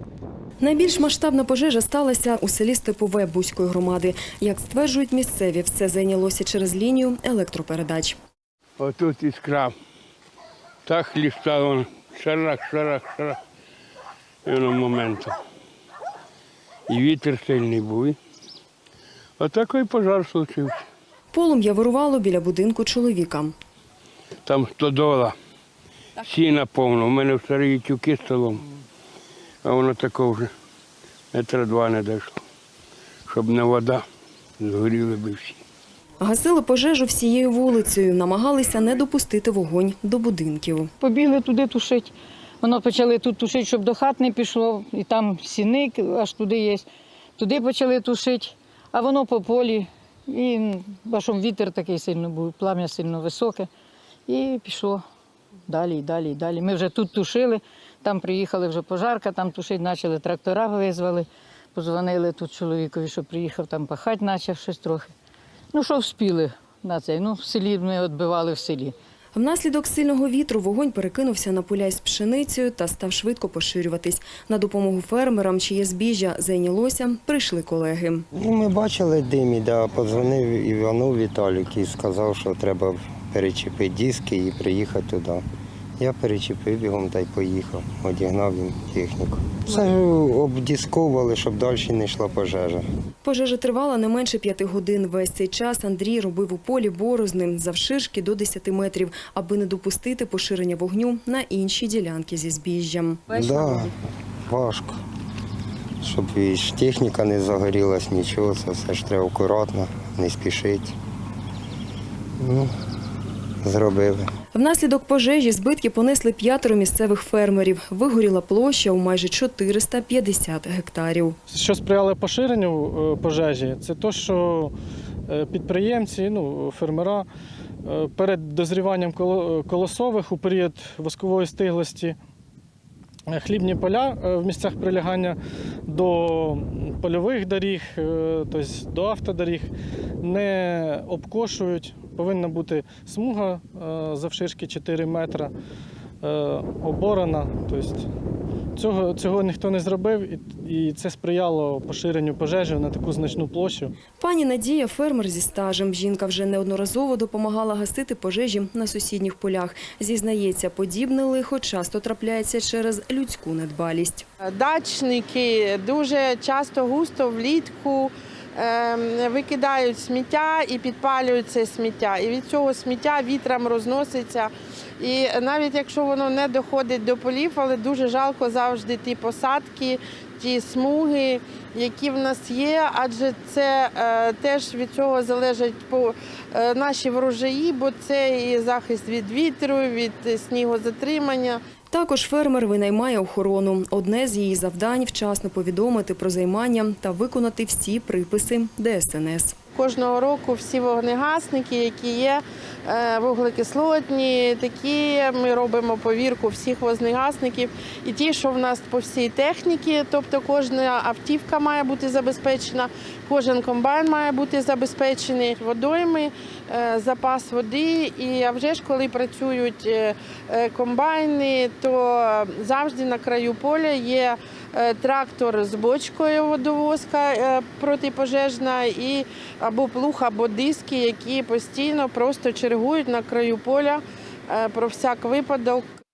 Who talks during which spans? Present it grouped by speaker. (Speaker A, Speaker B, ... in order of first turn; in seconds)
Speaker A: 0.6-8.2, 21.3-23.5, 36.2-40.9, 69.3-78.3, 93.2-103.5, 114.5-121.4, 154.2-164.2, 191.9-199.6
Speaker B: 8.8-9.7, 10.9-13.4, 14.5-15.4, 16.9-18.2, 19.4-20.8, 24.5-25.4, 26.2-28.6, 29.6-30.5, 31.3-32.3, 33.3-34.0, 34.6-35.6
Speaker C: 41.0-46.9, 47.4-53.7, 54.3-55.0, 55.7-65.1, 65.7-68.9
Speaker D: 78.3-85.5, 86.0-92.9, 103.3-103.9, 104.5-105.0, 106.0-111.0, 112.4-112.7, 113.6-114.3
Speaker E: 121.5-124.7, 125.3-127.3, 127.8-132.2, 133.3-139.7, 140.2-145.5, 146.2-148.1, 148.8-153.9
Speaker F: 164.5-191.6, 199.7-235.9